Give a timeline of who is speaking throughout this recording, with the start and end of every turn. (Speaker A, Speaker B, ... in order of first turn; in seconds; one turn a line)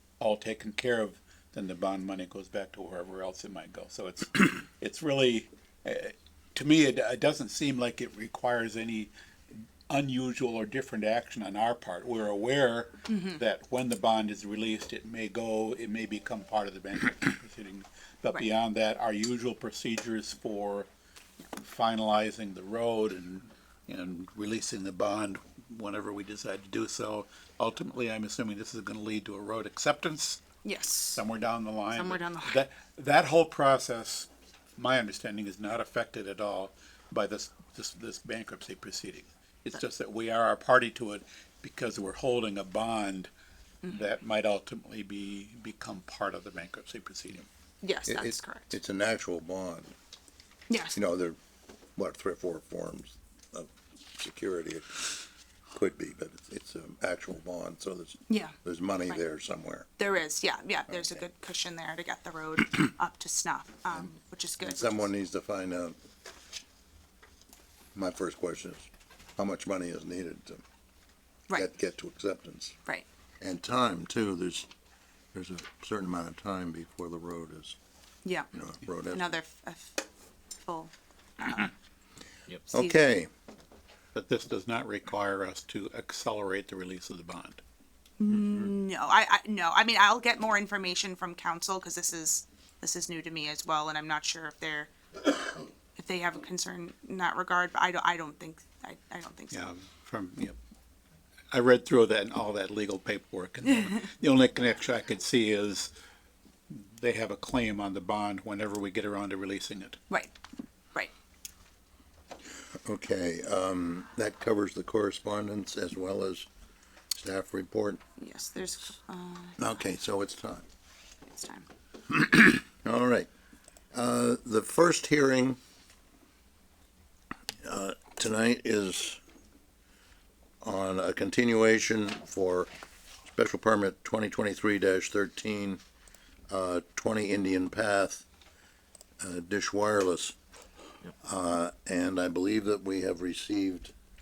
Speaker A: 0.2-20.9
Speaker B: 13.1-13.4
Speaker A: 21.6-30.4
Speaker B: 30.6-31.2
Speaker A: 31.1-43.3
Speaker B: 31.9-32.6
Speaker A: 43.9-47.5
Speaker B: 47.8-48.7
Speaker C: 48.1-49.9
Speaker B: 50.7-51.0
Speaker C: 50.9-51.4
Speaker C: 52.0-55.2
Speaker C: 55.7-59.9
Speaker B: 58.3-58.5
Speaker B: 60.0-65.1
Speaker C: 60.9-61.2
Speaker C: 64.6-66.0
Speaker C: 67.9-70.6
Speaker C: 71.5-72.8
Speaker C: 73.4-74.7
Speaker C: 75.3-77.8
Speaker B: 78.2-78.5
Speaker C: 78.5-79.3
Speaker B: 79.1-81.7
Speaker C: 82.7-83.3
Speaker B: 82.7-83.0
Speaker A: 84.1-87.6
Speaker B: 88.2-99.7
Speaker C: 88.3-88.7
Speaker A: 99.5-100.5
Speaker A: 101.5-105.9
Speaker A: 106.7-110.0
Speaker B: 110.1-110.3
Speaker C: 112.8-116.5
Speaker C: 117.1-118.0
Speaker B: 118.2-119.8
Speaker C: 119.6-120.6
Speaker B: 121.3-121.7
Speaker C: 122.1-123.3
Speaker C: 123.9-125.6
Speaker C: 127.6-129.2
Speaker C: 130.6-132.7
Speaker C: 133.3-135.8
Speaker C: 136.5-138.2
Speaker C: 139.2-140.3
Speaker C: 141.2-143.9